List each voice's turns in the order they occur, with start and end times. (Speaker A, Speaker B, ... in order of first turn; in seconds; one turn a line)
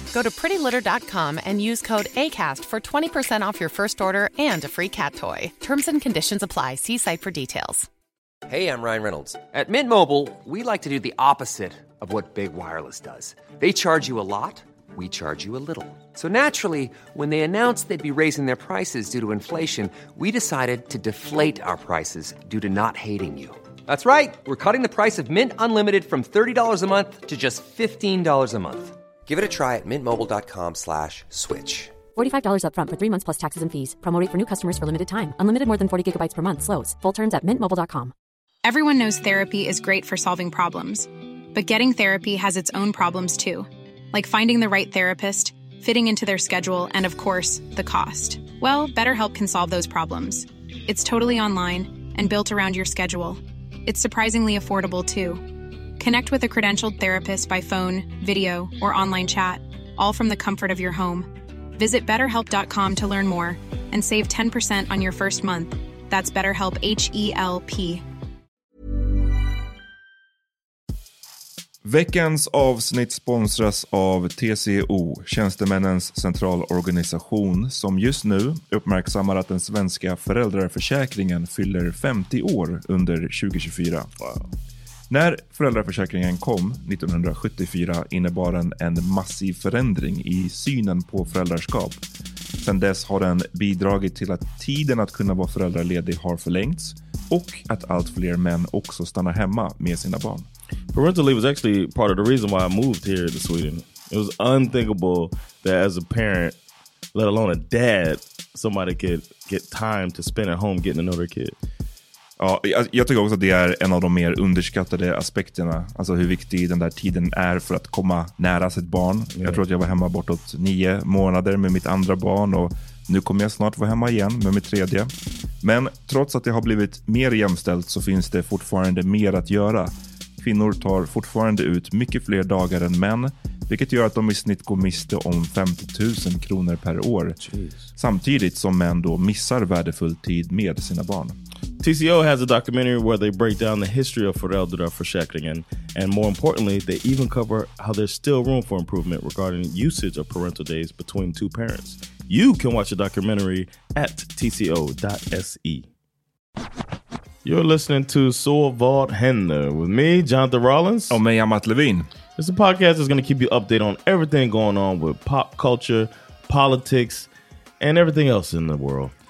Speaker A: 0.1-7.9
Speaker B: 8.5-32.0
Speaker C: 32.1-38.1
Speaker D: 38.6-55.4
Speaker D: 56.0-68.0
Speaker E: 71.8-84.1
Speaker F: 84.2-84.5
Speaker E: 85.1-92.0
Speaker E: 92.6-100.5
Speaker F: 100.9-106.6
Speaker F: 107.1-111.6
Speaker E: 112.4-137.4
Speaker F: 119.3-119.6
Speaker F: 137.4-137.8
Speaker E: 137.9-141.4
Speaker F: 141.8-155.9
Speaker F: 157.4-161.2
Speaker E: 161.1-162.1
Speaker F: 162.4-167.3
Speaker F: 167.8-169.1